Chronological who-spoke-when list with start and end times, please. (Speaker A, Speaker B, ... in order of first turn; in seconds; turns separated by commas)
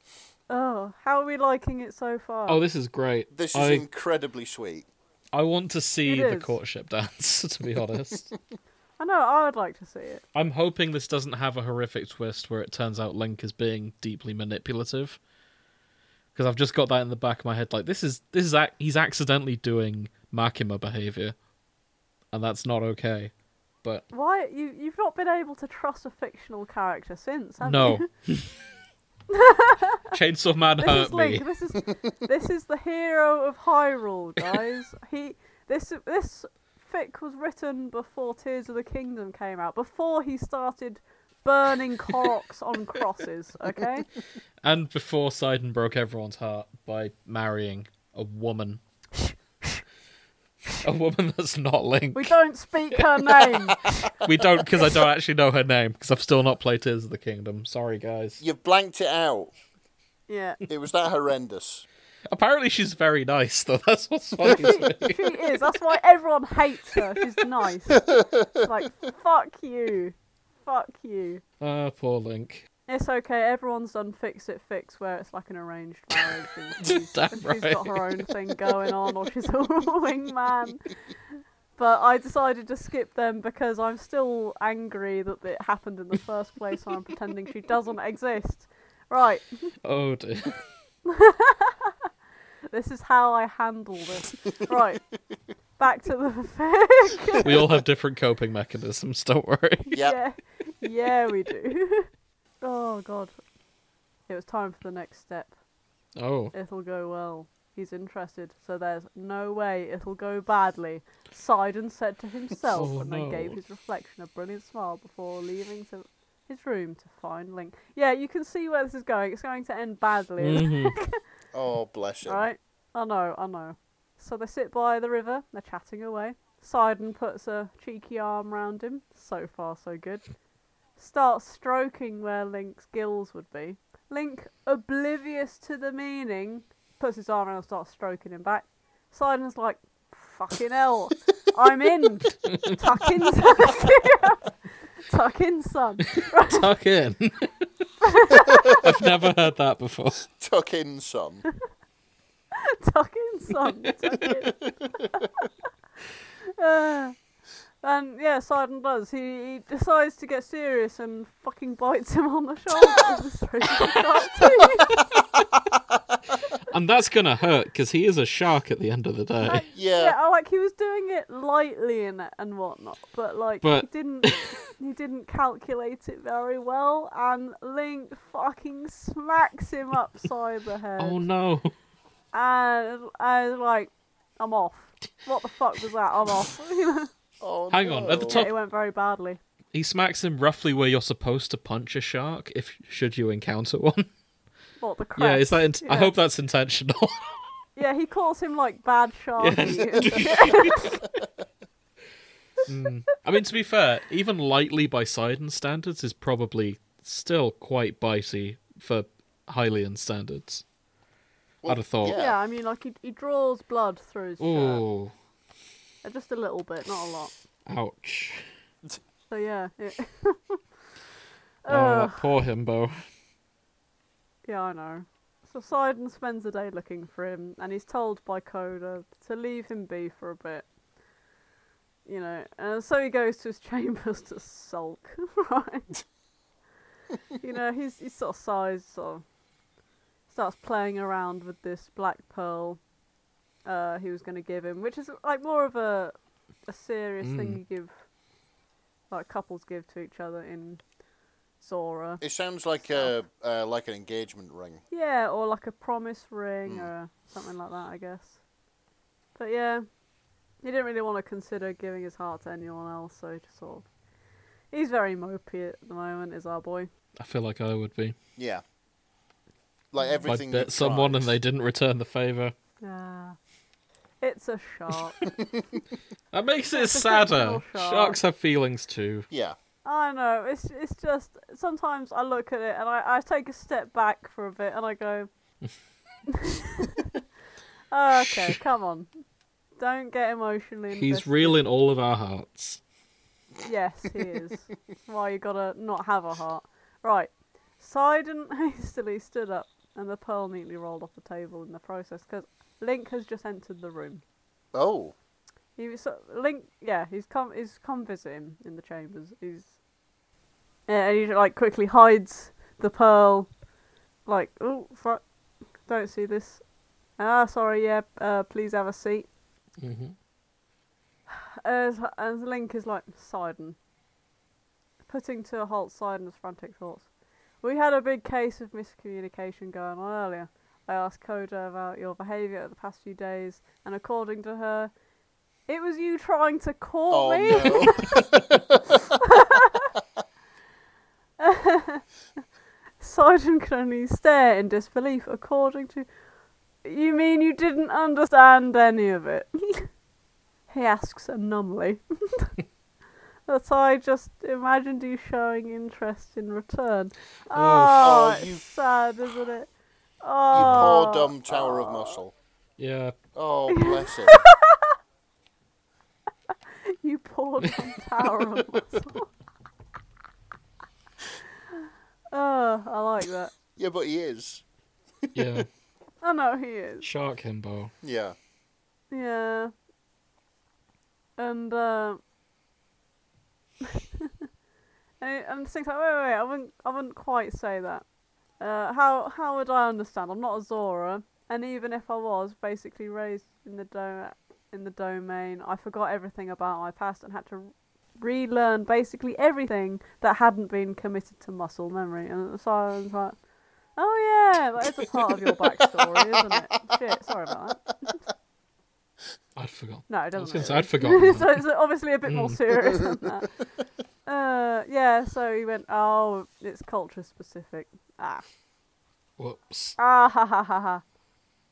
Speaker A: 0.5-2.6, Speaker B: 2.5-3.9, Speaker C: 3.3-4.9, Speaker B: 5.3-8.3, Speaker A: 6.0-6.6, Speaker A: 9.0-10.2, Speaker B: 10.3-15.2, Speaker B: 16.4-21.4, Speaker B: 22.3-24.0, Speaker A: 24.1-28.1, Speaker B: 27.6-28.5, Speaker A: 29.3-30.2, Speaker B: 30.1-31.4, Speaker A: 30.8-44.1, Speaker B: 44.6-48.8, Speaker A: 49.2-49.8, Speaker B: 50.8-52.4, Speaker A: 52.1-54.1, Speaker C: 53.9-54.4, Speaker B: 54.2-58.4, Speaker C: 58.4-59.5, Speaker A: 60.3-60.6, Speaker C: 60.7-61.9, Speaker B: 62.3-65.6, Speaker A: 64.4-71.4, Speaker C: 67.9-68.7, Speaker B: 71.6-72.7, Speaker A: 72.9-81.0, Speaker B: 76.8-78.3, Speaker A: 81.8-89.7, Speaker B: 89.8-90.6, Speaker A: 91.1-92.1, Speaker A: 92.7-95.1, Speaker A: 95.8-97.6, Speaker B: 97.4-100.0, Speaker C: 99.9-100.2, Speaker A: 100.0-102.1, Speaker A: 102.6-103.3, Speaker A: 104.3-105.5, Speaker B: 106.2-106.5, Speaker A: 106.5-121.2, Speaker B: 112.7-113.6, Speaker B: 120.4-121.0, Speaker C: 121.5-122.5, Speaker A: 122.2-130.3, Speaker A: 131.0-146.7, Speaker B: 142.4-142.8, Speaker B: 146.2-147.9, Speaker A: 148.0-148.8, Speaker B: 148.8-150.2, Speaker C: 150.3-151.4, Speaker A: 152.5-155.5, Speaker A: 156.4-157.2, Speaker A: 157.8-165.0, Speaker B: 166.7-169.6, Speaker A: 169.5-181.3, Speaker C: 169.7-170.2, Speaker B: 173.6-174.5, Speaker B: 181.0-181.7, Speaker A: 182.3-187.1, Speaker C: 187.4-188.5, Speaker B: 187.7-188.5, Speaker A: 187.8-189.4, Speaker B: 189.7-194.1, Speaker A: 194.8-196.1, Speaker B: 195.2-197.2, Speaker A: 197.8-201.0, Speaker B: 199.4-201.0, Speaker B: 202.7-210.6, Speaker C: 211.6-212.4, Speaker B: 211.7-212.2, Speaker A: 212.2-214.8, Speaker B: 214.4-215.1, Speaker A: 216.0-217.3, Speaker B: 217.7-218.5, Speaker A: 219.3-220.6, Speaker A: 221.7-222.3, Speaker B: 221.7-223.0, Speaker A: 224.5-230.7, Speaker A: 232.1-236.0, Speaker A: 237.4-239.2, Speaker A: 240.3-242.8, Speaker A: 243.7-246.2, Speaker A: 246.7-247.9, Speaker B: 247.2-247.6, Speaker A: 249.1-250.8, Speaker A: 251.6-252.2, Speaker C: 252.2-254.8, Speaker A: 254.9-258.4, Speaker A: 259.4-259.9, Speaker A: 260.6-263.9, Speaker A: 264.7-266.9, Speaker B: 267.2-268.2, Speaker C: 268.4-268.6, Speaker C: 269.9-271.3, Speaker B: 270.3-272.5, Speaker A: 272.8-273.4, Speaker A: 274.2-275.3, Speaker C: 275.4-275.8, Speaker B: 276.3-279.3, Speaker A: 276.7-278.2, Speaker C: 279.3-279.6, Speaker A: 279.9-285.3, Speaker A: 286.3-287.1, Speaker A: 287.9-289.1, Speaker B: 288.2-288.6, Speaker A: 289.8-291.6, Speaker B: 290.9-292.8, Speaker A: 293.6-304.2, Speaker C: 304.7-305.1, Speaker A: 305.8-309.7, Speaker A: 310.9-313.5, Speaker A: 314.3-315.2, Speaker A: 315.9-316.6, Speaker A: 317.2-319.3, Speaker B: 319.8-320.2, Speaker A: 321.3-323.8, Speaker A: 325.1-327.1, Speaker A: 327.6-334.9, Speaker A: 335.7-338.3, Speaker C: 337.1-339.1, Speaker A: 339.2-339.9, Speaker A: 341.4-342.0, Speaker A: 343.0-346.1, Speaker A: 346.8-349.9, Speaker A: 350.7-352.5, Speaker A: 353.5-359.7, Speaker B: 357.5-358.0, Speaker C: 358.0-358.7, Speaker A: 360.2-362.2, Speaker B: 360.5-360.9, Speaker C: 360.5-362.3, Speaker B: 362.8-363.2, Speaker C: 363.4-364.4, Speaker A: 363.7-364.9, Speaker A: 366.8-369.3, Speaker A: 372.3-373.6, Speaker C: 373.7-374.6, Speaker B: 375.3-375.7, Speaker A: 376.2-377.1, Speaker B: 377.0-377.9, Speaker C: 378.0-378.4, Speaker A: 379.1-379.7, Speaker A: 381.4-382.2, Speaker A: 383.8-384.4, Speaker A: 385.2-388.1, Speaker A: 388.6-403.4, Speaker A: 404.0-408.2, Speaker C: 404.8-407.0, Speaker B: 409.6-411.6, Speaker A: 410.1-413.6, Speaker B: 412.2-412.6, Speaker A: 414.3-418.4, Speaker B: 419.4-420.0, Speaker A: 420.0-421.0